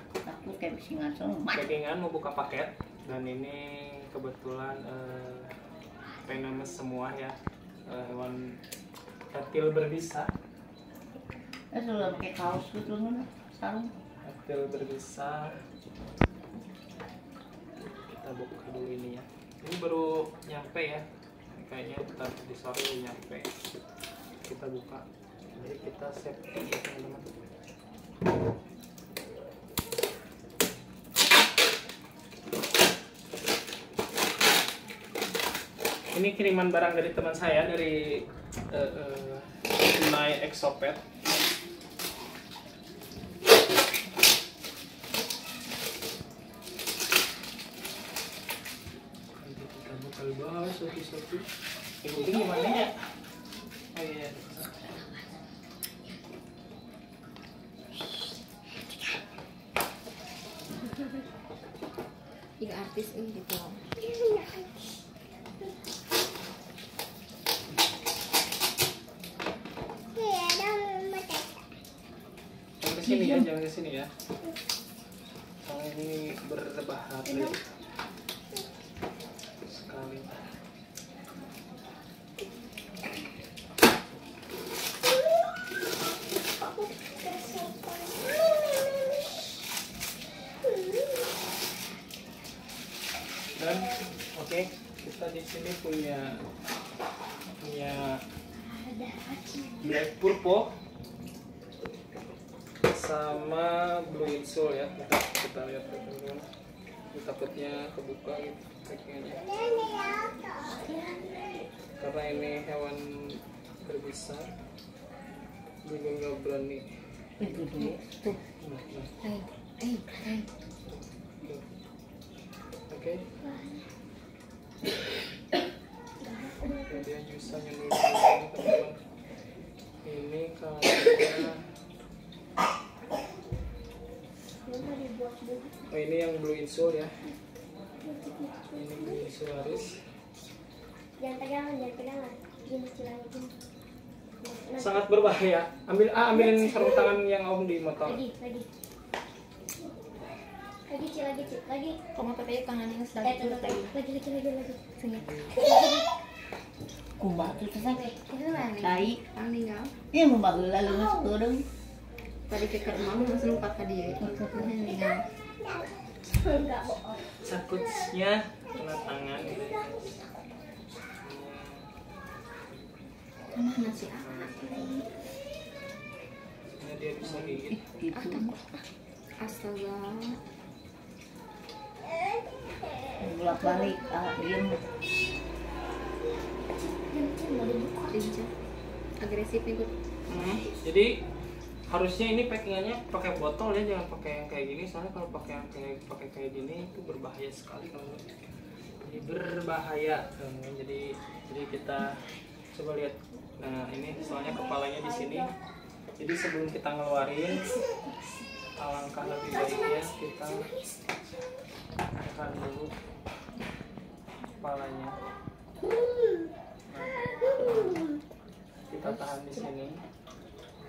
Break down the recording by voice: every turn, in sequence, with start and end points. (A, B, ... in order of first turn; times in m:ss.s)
0:00.2-0:01.6 A
0:01.5-0:05.5 B
0:06.2-0:07.4 B
0:07.9-0:08.5 B
0:09.3-0:10.3 B
0:11.7-0:13.9 A
0:12.0-0:12.8 B
0:14.2-0:15.5 B
0:17.8-0:23.5 B
0:24.4-0:27.3 B
0:36.1-0:41.0 B
0:49.4-0:51.5 B
0:52.0-0:52.9 B
0:53.9-0:54.6 B
1:02.6-1:03.8 C
1:04.0-1:04.6 D
1:10.2-1:11.4 D
1:12.8-1:14.1 B
1:13.1-1:13.4 C
1:15.6-1:17.6 B
1:17.3-1:17.5 D
1:19.6-1:20.4 B
1:26.8-1:28.3 D
1:33.5-1:36.4 B
1:37.6-1:38.2 B
1:38.7-1:39.8 D
1:39.8-1:40.7 B
1:42.8-1:46.4 B
1:47.1-1:49.4 B
1:49.5-1:51.6 D
1:52.0-1:54.5 B
1:55.8-1:56.8 B
1:57.4-1:58.4 A
1:58.6-1:59.1 B
1:59.2-2:00.4 C
2:00.9-2:01.6 B
2:02.9-2:03.3 B
2:03.4-2:03.8 D
2:06.2-2:07.0 D
2:06.7-2:09.0 B
2:10.0-2:11.6 B
2:14.6-2:15.8 D
2:15.9-2:17.1 B
2:18.0-2:19.2 D
2:18.7-2:20.0 B
2:21.2-2:23.5 D
2:24.4-2:25.1 D
2:24.8-2:28.2 B
2:26.3-2:27.1 D
2:28.0-2:28.7 D
2:30.9-2:32.0 D
2:32.1-2:33.9 C
2:33.2-2:34.8 D
2:35.0-2:35.2 C
2:35.1-2:35.6 B
2:35.6-2:36.0 D
2:37.2-2:38.1 A
2:37.3-2:38.1 B
2:38.1-2:39.9 C
2:38.8-2:39.2 A
2:40.1-2:41.6 A
2:42.5-2:45.2 C
2:43.1-2:44.8 B
2:46.3-2:47.3 D
2:47.4-2:50.2 B
2:49.2-2:49.5 D
2:51.2-2:51.8 B
2:53.5-2:55.0 C
2:54.1-2:54.9 B
2:56.8-2:57.8 B
2:57.2-2:58.5 A
2:58.1-2:58.6 C
2:59.4-3:00.4 C
3:03.2-3:04.8 A
3:03.5-3:03.9 D
3:06.8-3:08.3 D
3:08.0-3:08.5 C
3:09.2-3:09.9 C
3:10.3-3:11.2 B
3:11.9-3:18.2 B
3:19.0-3:25.5 B
3:24.3-3:25.5 D
3:26.2-3:27.8 B
3:28.8-3:30.7 B
3:29.5-3:30.8 D
3:32.2-3:32.9 B
3:34.6-3:35.2 B
3:36.9-3:38.1 B
3:37.6-3:38.0 D
3:38.9-3:40.0 B